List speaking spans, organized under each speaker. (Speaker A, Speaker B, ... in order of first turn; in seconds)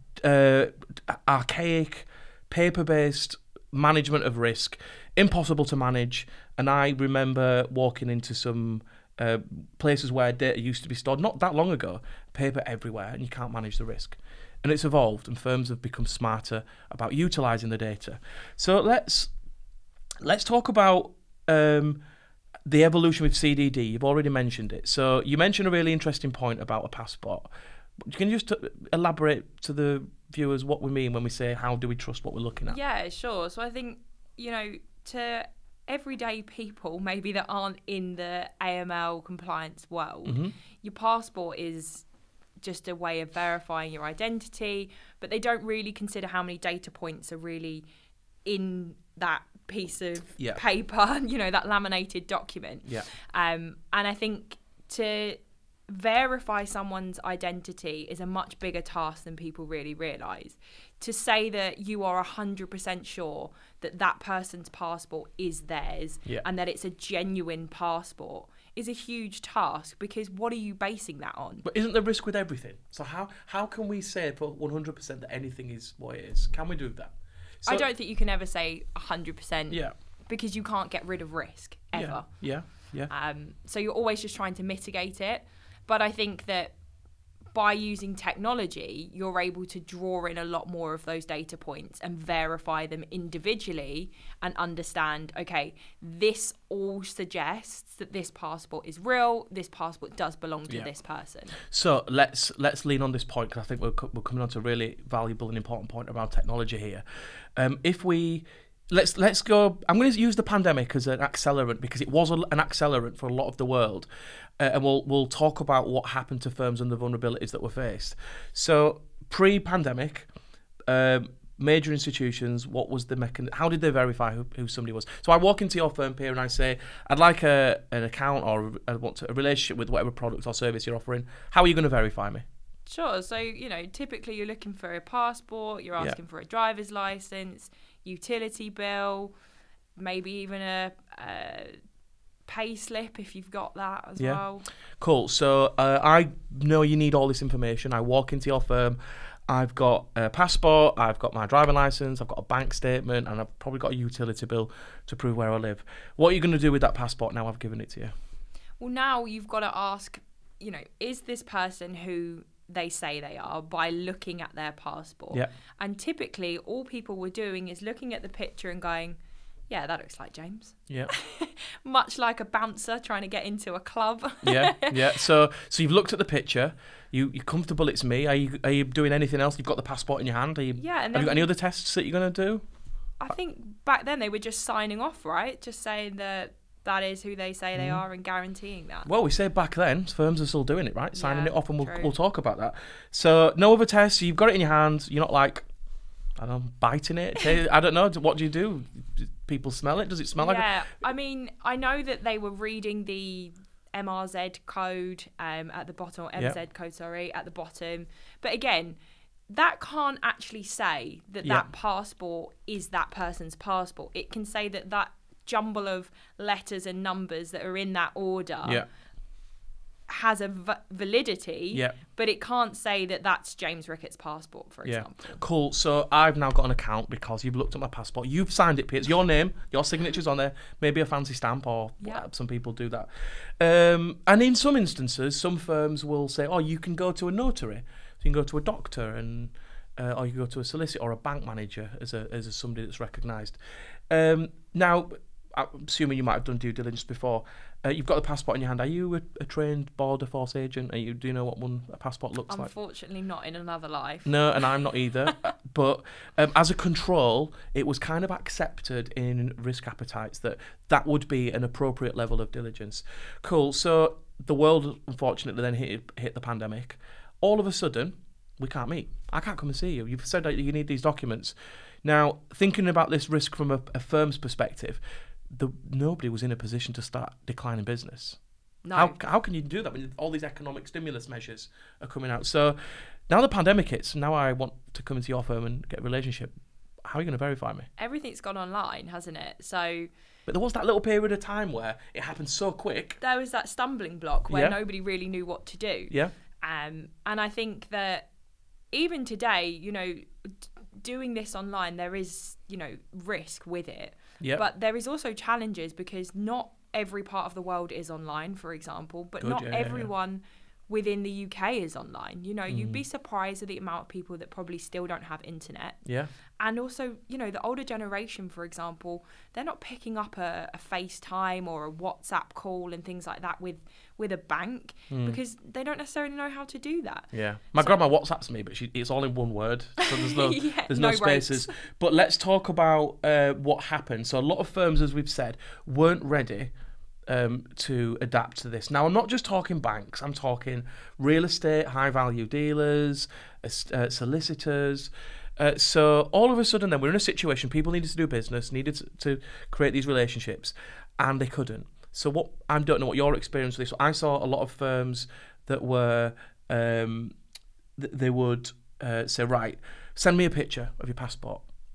Speaker A: 0.2-19.3, 20.2-22.0, 22.6-27.5, 28.0-32.8, 40.3-40.5, 71.6-77.9, 81.9-83.1, 101.6-107.0, 107.6-114.1, 114.6-120.3, 120.9-132.4, 145.0-158.1, 174.4-182.7, 187.8-188.0, 189.1-195.7, 196.4-200.7, 211.4-211.7, 224.9-243.6, 244.1-252.7, 254.2-278.4, 278.9-282.8, 283.3-286.5, 287.1-287.9, 290.5-293.2, 294.5-294.8, 309.4-310.1, 312.7-313.0, 316.1-316.3, 325.1-325.4, 327.3-336.7, 337.3-357.3, 358.0-361.7
Speaker B: 32.7-42.0, 42.6-47.9, 48.5-71.7, 77.7-82.4, 83.1-86.8, 87.5-101.6, 132.9-139.3, 140.0-141.8, 142.5-144.7, 158.8-169.2, 169.7-175.2, 180.8-181.5, 183.2-189.1, 191.2-192.1, 200.4-209.0, 209.5-218.8, 220.1-225.4, 252.5-254.7, 255.2-255.5, 278.8-279.2, 288.0-290.1, 293.2-298.3, 298.9-316.0, 316.6-328.0, 330.0-331.8